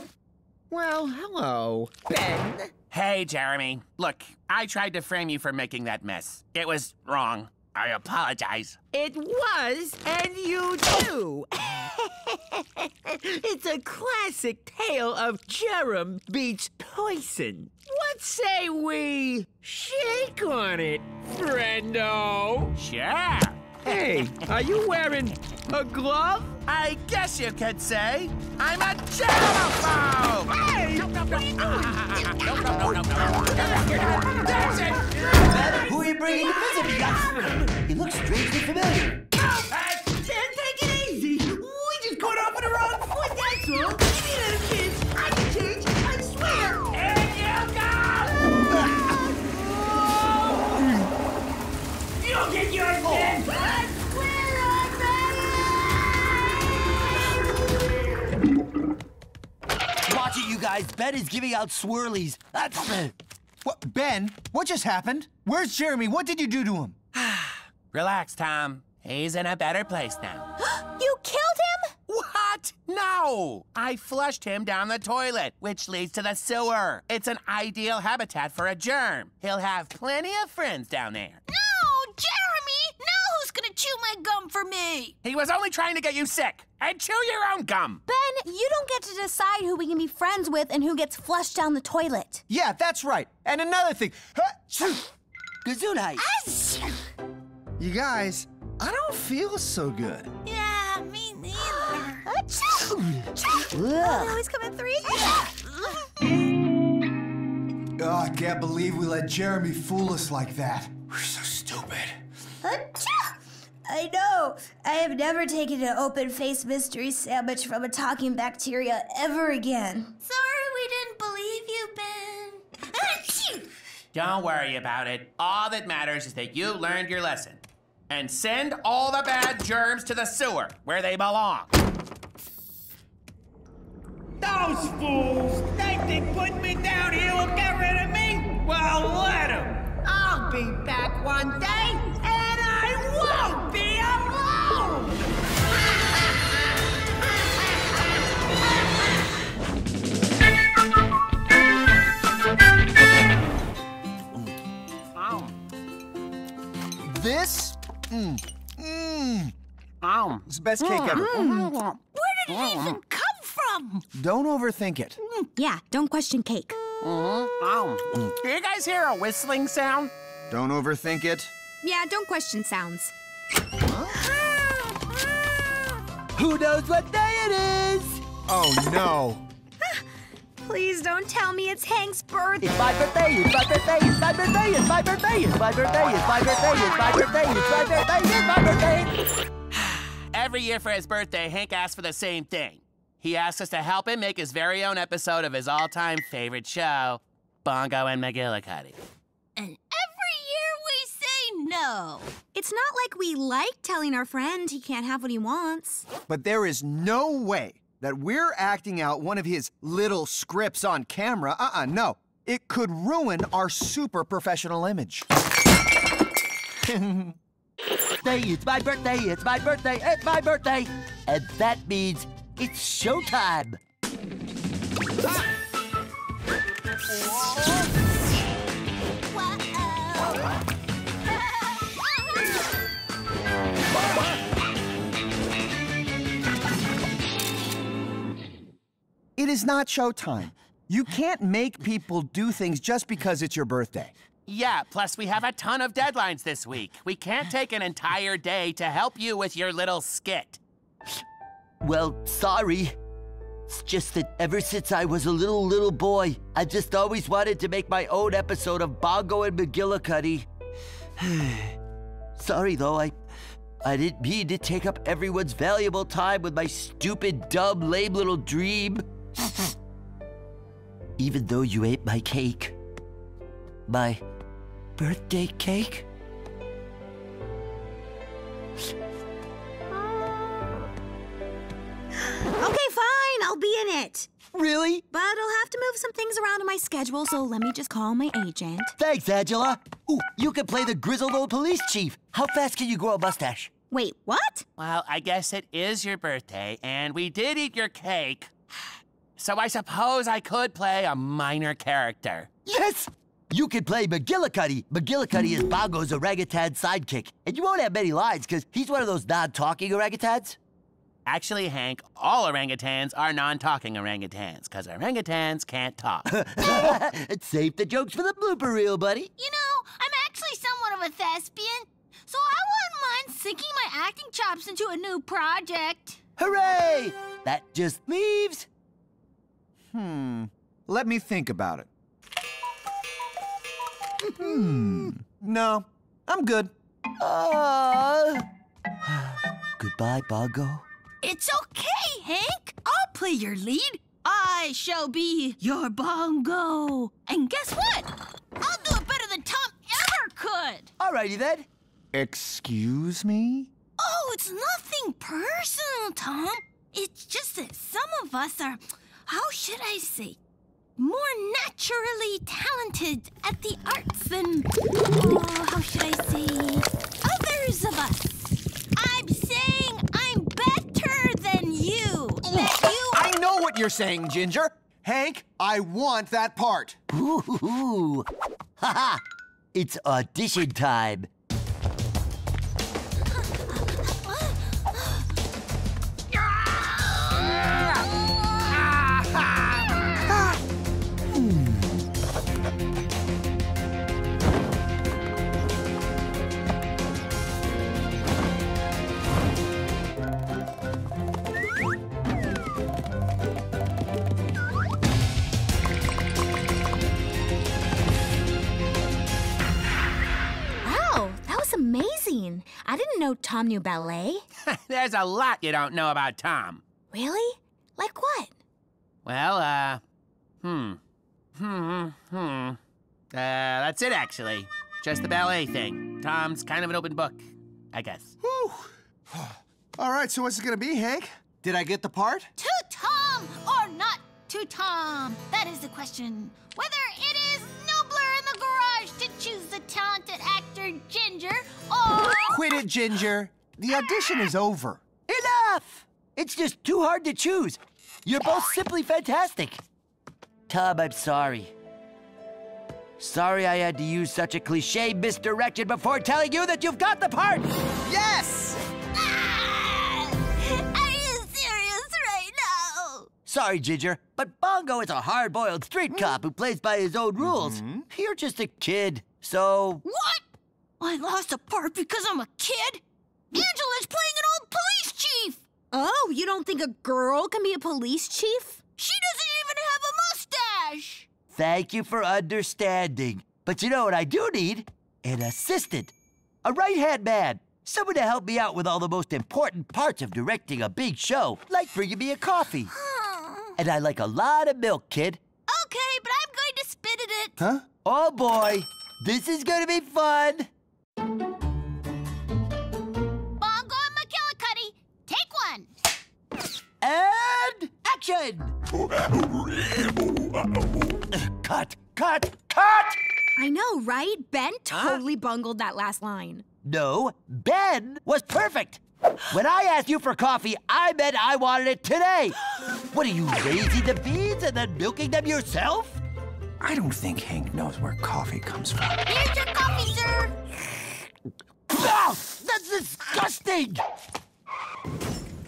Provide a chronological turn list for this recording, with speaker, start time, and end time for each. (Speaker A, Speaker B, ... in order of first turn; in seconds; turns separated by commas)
Speaker A: 0.7-2.7, Speaker B: 2.9-8.8, Speaker A: 8.9-22.7, Speaker B: 22.8-23.8, Speaker A: 23.8-26.6, Speaker B: 26.6-35.3, Speaker A: 30.5-32.0, Speaker C: 35.3-39.3, Speaker A: 39.6-46.9, Speaker B: 39.7-40.0, Speaker B: 46.9-48.4, Speaker A: 49.1-50.3, Speaker A: 52.2-55.8, Speaker C: 60.0-63.1, Speaker D: 63.6-67.0, Speaker B: 67.1-70.5, Speaker E: 70.8-71.9, Speaker B: 72.1-81.4, Speaker F: 81.5-85.2, Speaker B: 85.2-88.0, Speaker E: 88.1-92.4, Speaker D: 92.5-95.1, Speaker C: 95.6-96.2, Speaker F: 96.2-97.0, Speaker D: 97.8-100.3, Speaker F: 100.4-102.8, Speaker C: 102.7-104.4, Speaker E: 104.0-105.4, Speaker D: 108.0-112.2, Speaker E: 112.6-113.3, Speaker E: 113.8-120.1, Speaker F: 120.2-123.7, Speaker B: 124.1-131.7, Speaker A: 134.4-145.2, Speaker B: 155.2-155.5, Speaker D: 157.1-159.5, Speaker B: 160.0-162.0, Speaker D: 160.5-161.4, Speaker F: 162.1-164.0, Speaker B: 162.5-163.0, Speaker D: 164.1-165.2, Speaker E: 165.6-166.8, Speaker B: 167.0-170.1, Speaker D: 170.5-171.5, Speaker E: 171.8-173.1, Speaker D: 173.8-174.2, Speaker C: 176.3-178.2, Speaker D: 178.5-179.4, Speaker E: 180.6-182.7, Speaker C: 182.6-189.1, Speaker B: 190.3-199.0, Speaker F: 199.6-202.3, Speaker E: 202.5-206.1, Speaker D: 206.3-215.3, Speaker D: 216.8-217.3, Speaker C: 218.2-223.8, Speaker F: 229.2-230.5, Speaker F: 231.3-232.7, Speaker D: 239.4-244.1, Speaker B: 244.5-250.6, Speaker C: 251.8-253.0, Speaker C: 253.7-260.5, Speaker C: 261.2-261.8, Speaker C: 262.4-263.2, Speaker C: 263.8-269.6, Speaker C: 271.2-272.8, Speaker C: 273.9-274.2, Speaker C: 275.0-276.1, Speaker E: 282.5-284.3, Speaker C: 284.5-285.0, Speaker E: 285.1-288.9, Speaker C: 289.0-293.7, Speaker E: 293.9-294.6, Speaker B: 294.8-298.5, Speaker B: 299.4-302.5, Speaker C: 302.6-310.6, Speaker B: 311.2-316.3, Speaker C: 316.3-319.3, Speaker F: 319.4-326.2, Speaker C: 326.4-328.7, Speaker D: 329.9-331.9, Speaker D: 334.3-336.7, Speaker C: 337.2-338.4, Speaker C: 339.0-340.8, Speaker F: 341.2-348.1, Speaker F: 348.6-350.9, Speaker C: 351.0-351.7, Speaker D: 352.1-353.7, Speaker F: 354.0-360.4, Speaker F: 361.0-368.4, Speaker F: 368.9-373.3, Speaker D: 372.6-377.0, Speaker C: 377.1-378.3, Speaker C: 378.8-379.2, Speaker C: 379.7-381.3, Speaker F: 383.8-385.2, Speaker F: 386.4-388.8, Speaker B: 388.9-389.6, Speaker D: 390.3-390.6, Speaker D: 391.3-391.9, Speaker E: 410.8-414.4, Speaker B: 414.6-416.8, Speaker E: 417.1-418.5, Speaker B: 419.2-420.0, Speaker B: 420.6-421.0, Speaker B: 421.6-422.8, Speaker B: 423.3-427.4, Speaker B: 427.9-428.3, Speaker D: 428.4-432.5, Speaker F: 432.6-442.7, Speaker D: 442.5-445.0, Speaker C: 445.3-449.8, Speaker C: 450.7-451.7, Speaker C: 453.2-457.7, Speaker D: 458.0-458.8, Speaker F: 459.2-463.3, Speaker C: 463.4-470.0, Speaker D: 466.1-466.4, Speaker D: 467.4-468.1, Speaker F: 470.0-470.4, Speaker F: 471.0-475.6, Speaker E: 475.9-478.8, Speaker F: 479.0-481.3, Speaker C: 481.5-486.1, Speaker C: 486.6-492.9, Speaker F: 492.9-493.7, Speaker C: 493.8-495.4, Speaker F: 495.7-497.5, Speaker D: 497.6-497.8, Speaker C: 498.0-500.7, Speaker F: 503.6-505.9, Speaker C: 507.0-508.7, Speaker C: 511.3-513.2, Speaker E: 513.6-516.6, Speaker C: 516.8-522.6, Speaker C: 523.1-526.2, Speaker D: 526.8-529.2, Speaker F: 529.2-530.5, Speaker C: 531.9-534.0